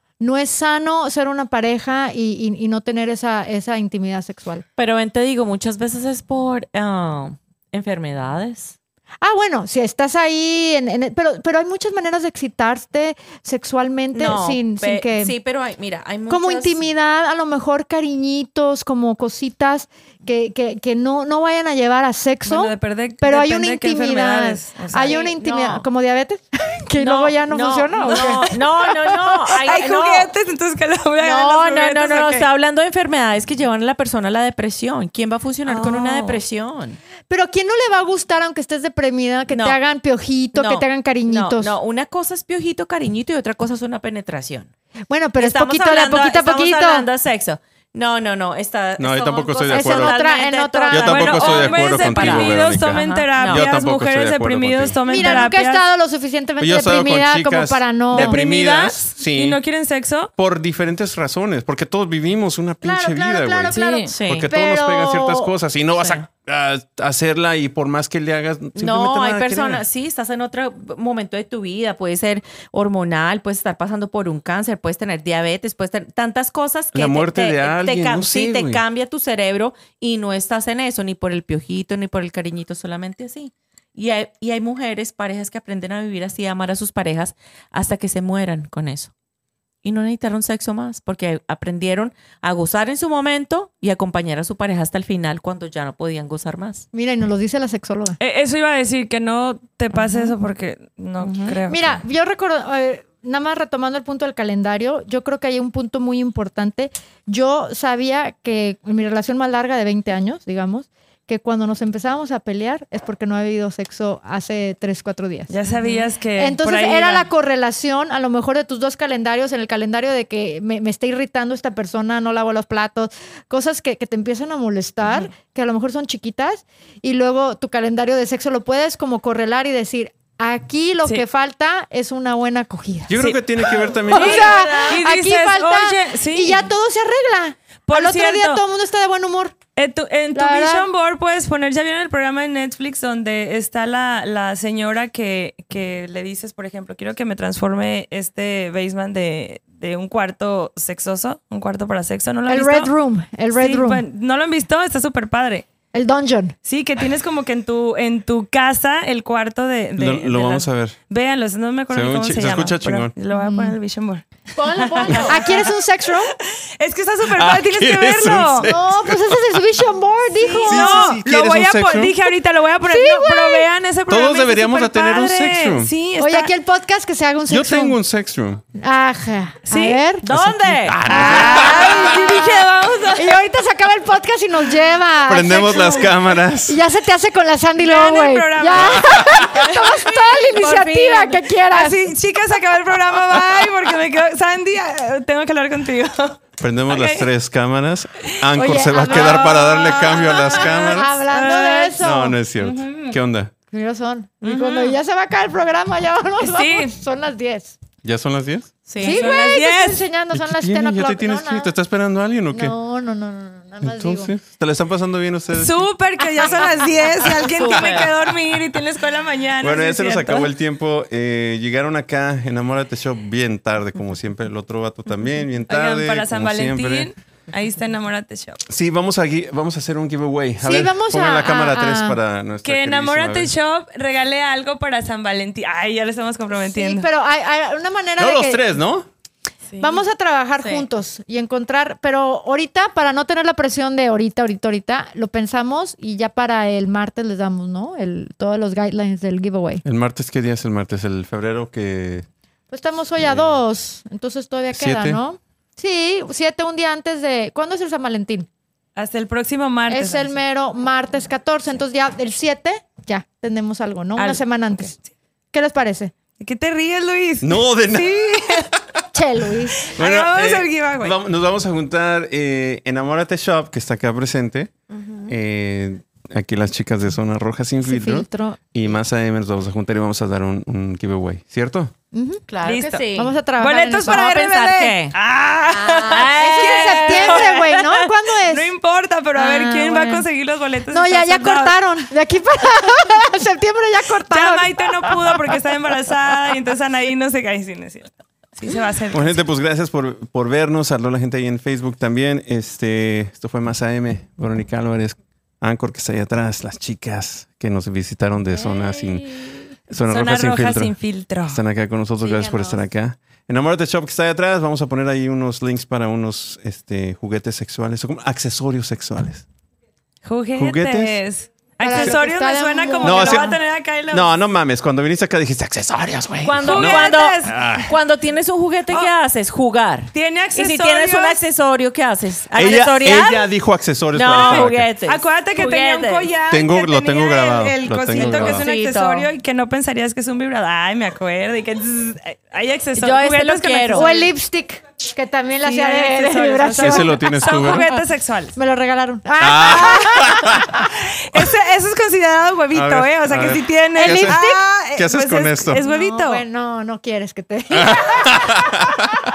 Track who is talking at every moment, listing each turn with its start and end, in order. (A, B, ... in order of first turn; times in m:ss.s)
0:00.2-0:04.6 A
0:04.8-0:08.8 B
0:09.2-0:15.3 A
0:14.1-0:16.8 B
0:16.3-0:29.5 A
0:22.4-0:25.2 C
0:25.0-0:25.8 B
0:27.0-0:30.3 B
0:28.0-0:28.5 C
0:29.5-0:32.5 C
0:31.2-0:37.0 B
0:35.6-0:36.4 C
0:37.3-0:41.7 A
0:39.5-0:39.8 B
0:40.5-0:44.7 B
0:45.1-0:47.0 A
0:45.4-0:53.7 B
0:49.0-0:50.2 D
0:49.7-0:51.6 A
0:50.9-0:55.0 D
0:51.1-0:55.8 C
0:55.1-0:58.4 A
0:55.2-0:55.4 B
0:56.6-0:59.6 D
0:58.1-1:00.3 C
1:00.4-1:09.8 D
1:02.8-1:05.5 A
1:03.7-1:04.1 C
1:04.1-1:04.5 B
1:06.0-1:06.3 B
1:08.8-1:29.1 B
1:16.9-1:18.8 D
1:29.8-1:36.8 B
1:36.9-1:38.2 A
1:38.2-1:42.0 C
1:41.2-1:41.6 B
1:41.7-2:13.2 A
1:55.5-1:57.3 C
2:13.1-2:14.6 D
2:14.0-2:19.6 A
2:14.1-2:16.7 C
2:14.1-2:15.0 B
2:17.9-2:18.6 C
2:19.8-2:32.9 C
2:20.3-2:20.9 A
2:32.5-2:34.0 A
2:33.5-2:35.6 C
2:35.9-2:36.6 A
2:36.6-2:45.7 C
2:40.0-2:41.0 D
2:41.9-2:43.1 D
2:43.3-2:43.8 A
2:44.6-2:45.7 B
2:45.3-2:46.3 A
2:46.3-2:48.7 C
2:47.3-2:49.6 D
2:48.7-2:51.2 A
2:50.3-2:56.5 C
2:50.6-2:52.1 D
2:52.8-2:53.7 A
2:54.1-2:55.9 D
2:56.2-2:58.0 A
2:57.5-2:58.6 D
2:58.8-3:12.0 A
2:59.7-3:00.0 C
3:00.2-3:02.6 B
3:00.8-3:02.1 D
3:01.1-3:03.4 C
3:05.2-3:06.8 D
3:07.8-3:09.6 C
3:08.8-3:09.7 D
3:10.1-3:11.4 B
3:10.6-3:10.9 C
3:11.7-3:17.3 C
3:16.6-3:21.2 D
3:18.6-3:22.4 A
3:19.0-3:23.1 C
3:22.0-3:23.5 D
3:23.7-3:27.8 A
3:24.4-3:24.9 B
3:26.4-3:26.9 C
3:28.0-3:28.7 D
3:28.9-3:29.4 B
3:29.0-3:31.7 A
3:29.0-3:30.0 C
3:30.3-3:32.7 D
3:32.5-3:34.3 A
3:33.8-3:35.9 D
3:35.6-3:40.5 C
3:36.4-3:37.5 A
3:37.6-3:38.1 B
3:39.6-3:47.1 D
3:45.7-3:48.6 C
3:48.7-3:53.5 D
3:50.6-3:52.2 A
3:52.6-3:57.1 C
3:56.5-3:58.6 A
3:58.2-3:59.1 D
3:59.8-4:09.8 A
4:09.8-4:12.3 D
4:12.7-4:18.5 A
4:13.2-4:13.6 D
4:14.7-4:15.2 D
4:19.0-4:20.3 C
4:19.9-4:24.9 A
4:24.2-4:25.0 C
4:25.5-4:26.1 A
4:26.4-4:28.7 C
4:27.4-4:29.0 D
4:29.1-4:29.9 A
4:29.8-4:34.7 D
4:29.8-4:31.2 C
4:34.9-4:35.3 B
4:35.3-4:41.9 D
4:37.8-4:38.7 A
4:42.1-4:42.4 A
4:42.5-4:43.4 B
4:42.6-4:43.1 C
4:43.1-4:44.5 A
4:43.6-4:47.9 C
4:44.0-4:45.1 B
4:45.7-4:48.7 A
4:46.1-4:47.9 B
4:48.4-4:51.7 C
4:49.3-4:50.3 A
4:50.9-4:55.5 A
4:54.3-4:59.4 C
4:59.1-5:10.9 D
5:08.6-5:09.6 B
5:10.1-5:11.6 C
5:11.5-5:19.4 D
5:12.2-5:12.8 B
5:20.2-5:24.3 C
5:20.6-5:21.2 D
5:21.8-5:23.6 A
5:23.0-5:23.6 D
5:24.1-5:27.9 D
5:26.4-5:33.5 B
5:26.6-5:27.8 C
5:30.1-5:31.4 C
5:32.5-5:33.1 C
5:32.6-5:34.9 D
5:34.1-5:36.3 B
5:34.3-5:44.3 C
5:36.5-5:38.6 D
5:38.1-5:39.3 B
5:43.0-5:44.1 B
5:43.9-5:48.0 A
5:45.6-5:48.6 C
5:46.8-5:47.9 D
5:48.6-5:50.8 A
5:49.4-5:51.5 D
5:49.6-5:50.0 C
5:51.0-5:56.4 C
5:52.7-5:55.8 D
5:54.0-5:54.6 A
5:55.8-5:59.0 A
5:57.7-5:59.2 D